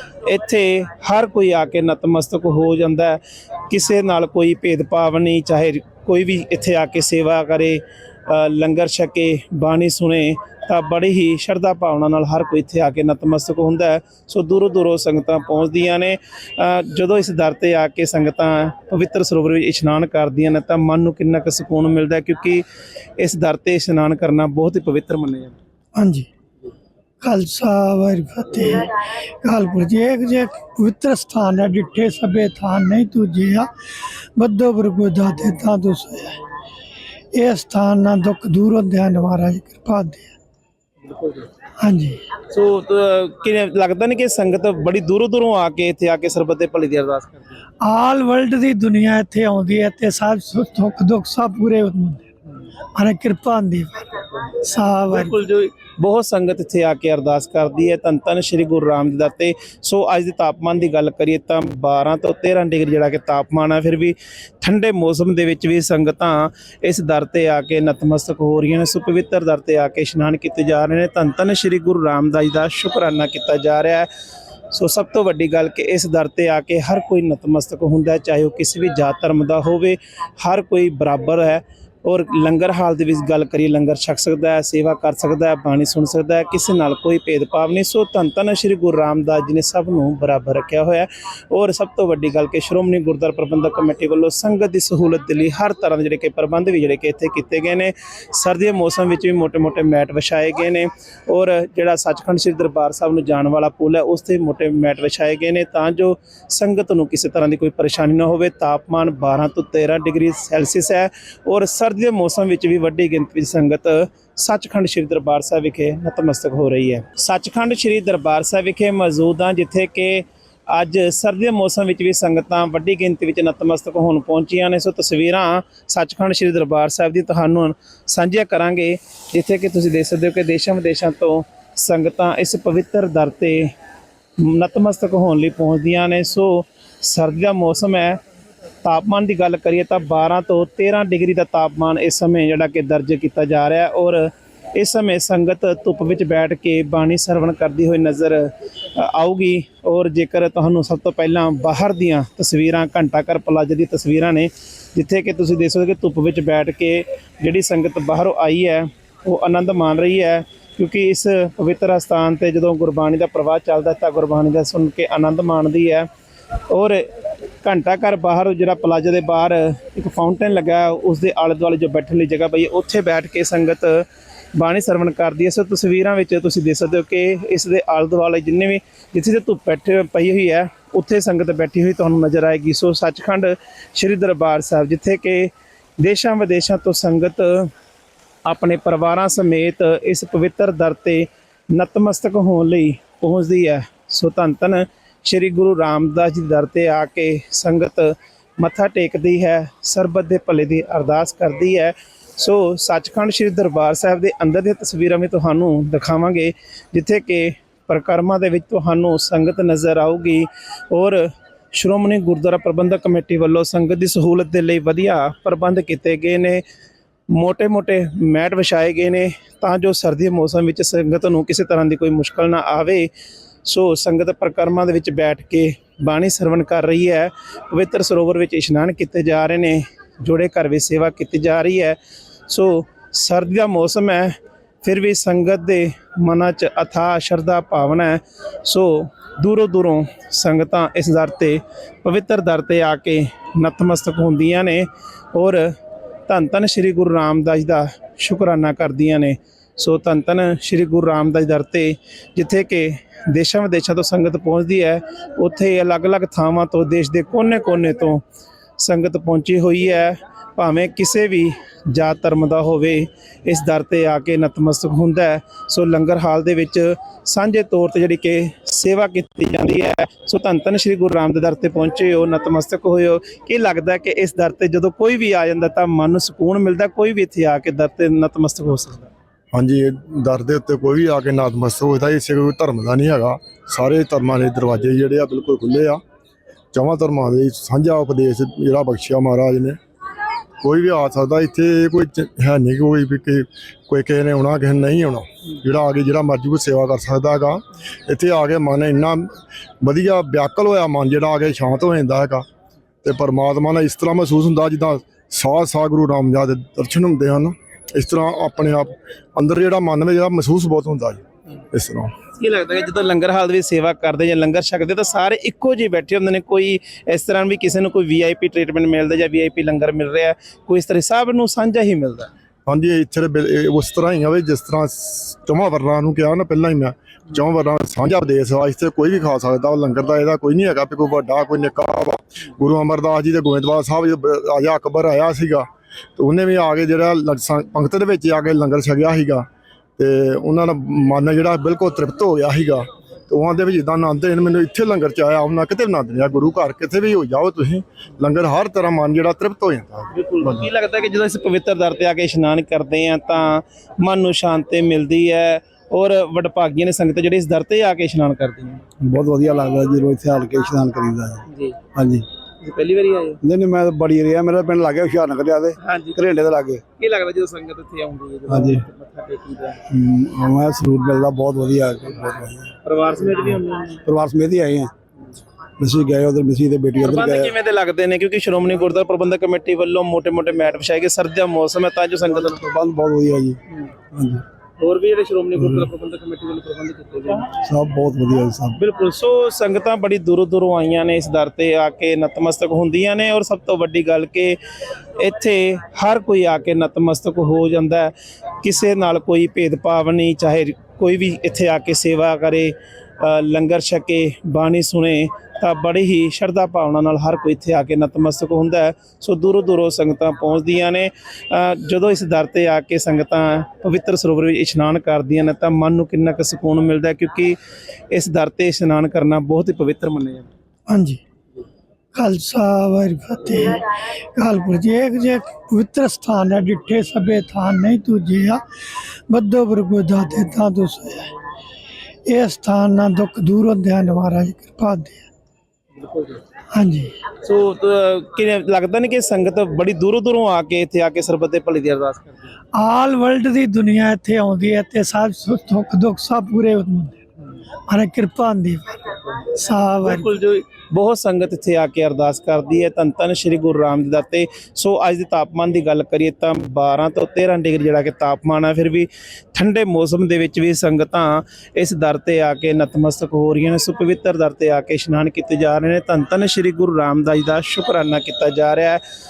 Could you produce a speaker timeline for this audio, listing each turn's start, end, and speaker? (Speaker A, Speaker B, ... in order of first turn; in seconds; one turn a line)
Speaker A: 0.2-22.6
Speaker A: 23.2-25.6
Speaker B: 25.9-26.3
Speaker B: 27.2-33.7
Speaker B: 34.4-36.4
Speaker B: 37.3-40.3
Speaker A: 41.0-41.5
Speaker B: 41.8-42.2
Speaker A: 42.4-47.5
Speaker B: 47.8-52.2
Speaker B: 53.0-55.4
Speaker A: 55.1-74.1
Speaker A: 74.7-133.7
Speaker A: 134.4-138.2
Speaker A: 138.8-166.1
Speaker A: 166.7-167.1
Speaker A: 167.6-187.7
Speaker A: 188.4-216.6
Speaker A: 217.3-223.1
Speaker A: 223.6-245.7
Speaker A: 246.3-258.2
Speaker A: 258.8-279.1
Speaker C: 279.5-286.0
Speaker C: 286.7-289.8
Speaker C: 290.6-302.4
Speaker C: 303.0-312.1
Speaker A: 312.3-322.3
Speaker C: 322.6-350.7
Speaker A: 350.1-358.8
Speaker D: 359.0-362.3
Speaker A: 361.5-361.8
Speaker A: 362.6-363.4
Speaker D: 363.4-366.8
Speaker A: 365.8-366.2
Speaker A: 367.0-369.8
Speaker D: 368.5-368.8
Speaker D: 369.9-372.7
Speaker A: 372.8-374.0
Speaker D: 374.0-374.9
Speaker D: 375.8-377.5
Speaker A: 377.0-382.6
Speaker D: 382.3-383.6
Speaker D: 384.1-384.4
Speaker A: 384.8-387.5
Speaker D: 385.6-385.9
Speaker D: 387.6-388.8
Speaker A: 388.8-394.6
Speaker A: 395.1-417.6
Speaker A: 418.1-420.5
Speaker B: 420.9-421.2
Speaker B: 422.1-428.6
Speaker B: 429.3-431.3
Speaker B: 432.3-435.2
Speaker A: 435.9-436.4
Speaker B: 436.7-437.1
Speaker A: 437.3-442.5
Speaker B: 442.7-447.2
Speaker B: 447.9-450.3
Speaker A: 450.0-469.0